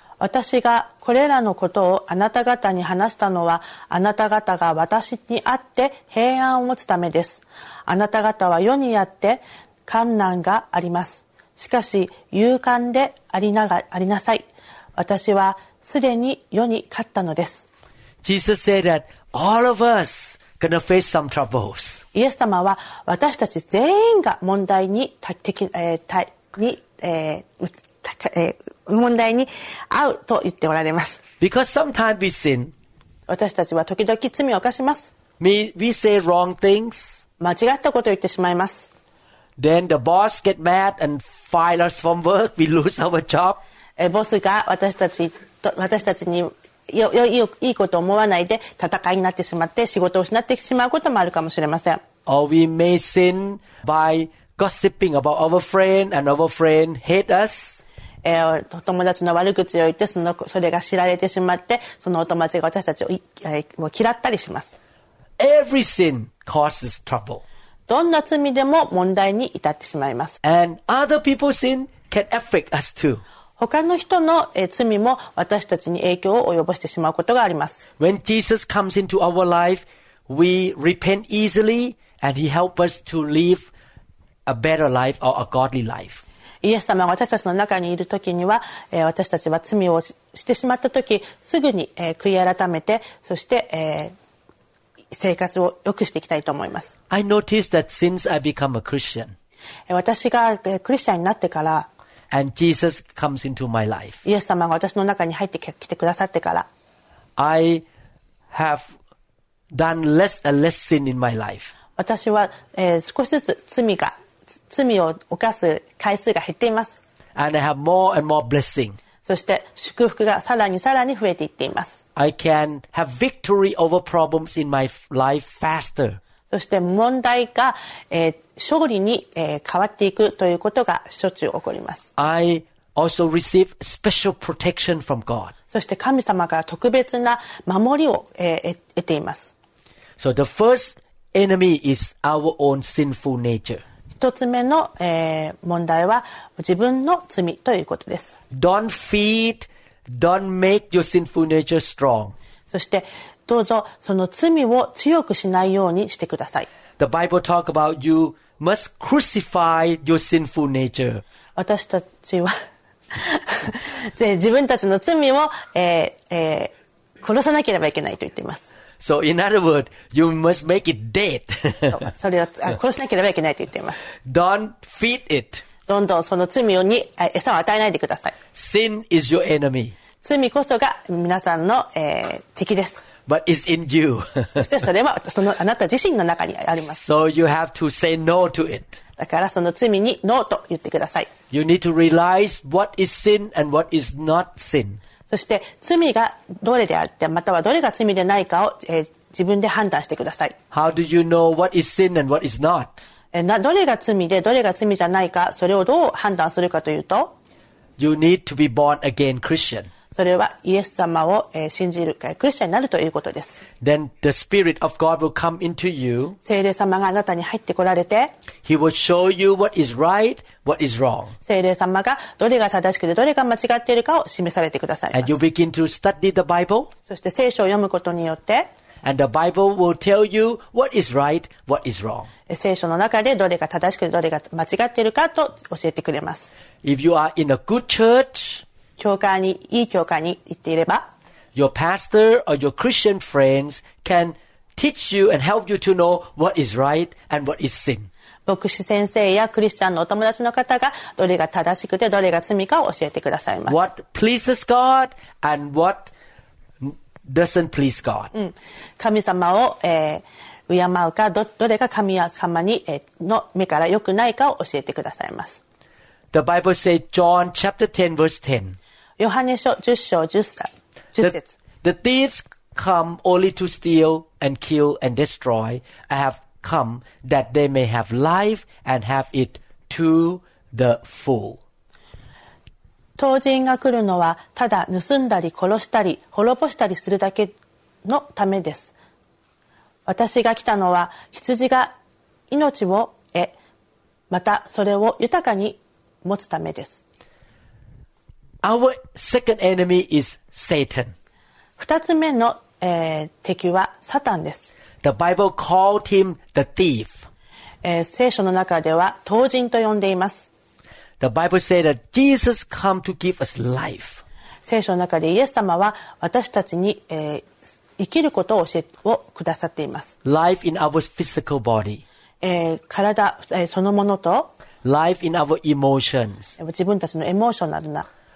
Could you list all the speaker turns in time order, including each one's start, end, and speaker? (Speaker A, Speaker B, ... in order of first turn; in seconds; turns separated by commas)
Speaker A: 0.2-17.7, Speaker B: 18.2-22.0, Speaker A: 22.1-31.2, Speaker B: 31.4-32.7, Speaker A: 33.3-35.1, Speaker B: 35.4-37.2, Speaker A: 37.4-38.9, Speaker B: 39.6-43.6, Speaker A: 44.0-52.0, Speaker B: 52.3-57.8, Speaker A: 58.2-64.8, Speaker B: 65.4-67.4, Speaker A: 67.9-70.4, Speaker B: 70.4-73.2, Speaker A: 73.6-77.8, Speaker B: 78.0-83.7, Speaker B: 84.5-86.2, Speaker A: 86.6-94.1, Speaker A: 95.1-96.9, Speaker B: 97.1-99.3, Speaker A: 99.9-101.9, Speaker B: 102.3-104.2, Speaker A: 104.2-106.7, Speaker B: 107.4-107.8, Speaker B: 108.5-108.9, Speaker B: 109.7-111.7, Speaker A: 112.0-114.1, Speaker A: 114.7-117.0, Speaker B: 117.3-119.0, Speaker A: 119.2-122.0, Speaker B: 122.2-126.2, Speaker A: 126.5-132.1, Speaker B: 132.2-135.5, Speaker A: 135.7-139.5, Speaker B: 140.2-143.8, Speaker A: 144.1-148.3, Speaker B: 148.5-152.3, Speaker A: 152.7-156.7, Speaker B: 157.0-161.2, Speaker A: 161.6-162.6, Speaker A: 163.1-168.7, Speaker B: 169.0-172.1, Speaker A: 171.9-174.0, Speaker B: 174.2-175.6, Speaker A: 175.9-178.3, Speaker B: 178.5-179.9, Speaker A: 180.2-183.1, Speaker B: 183.3-184.7, Speaker A: 184.6-187.0, Speaker B: 186.8-189.0, Speaker A: 189.2-191.3, Speaker B: 191.5-195.0, Speaker A: 195.3-200.6, Speaker B: 200.7-203.0, Speaker A: 203.3-207.3, Speaker B: 208.0-209.9, Speaker A: 210.1-213.6, Speaker B: 213.8-216.4, Speaker A: 216.4-218.3, Speaker B: 218.6-221.4, Speaker A: 221.4-225.4, Speaker B: 225.1-226.9, Speaker A: 227.1-228.7, Speaker B: 229.0-232.3, Speaker A: 232.5-236.5, Speaker B: 236.8-238.6, Speaker A: 239.0-241.1, Speaker B: 241.6-248.1, Speaker A: 248.4-253.8, Speaker B: 253.7-256.1, Speaker B: 256.8-258.3, Speaker A: 258.3-265.6, Speaker B: 266.3-268.8, Speaker A: 269.2-271.5, Speaker B: 271.2-281.6, Speaker A: 283.2-288.9, Speaker A: 290.1-291.9, Speaker A: 292.5-293.6, Speaker A: 294.3-297.0, Speaker B: 298.6-301.1, Speaker A: 301.8-304.7, Speaker B: 305.0-307.3, Speaker A: 307.8-310.5, Speaker B: 311.2-314.2, Speaker A: 314.6-320.1, Speaker B: 320.2-322.0, Speaker A: 322.4-324.5, Speaker B: 324.8-326.6, Speaker A: 326.6-328.1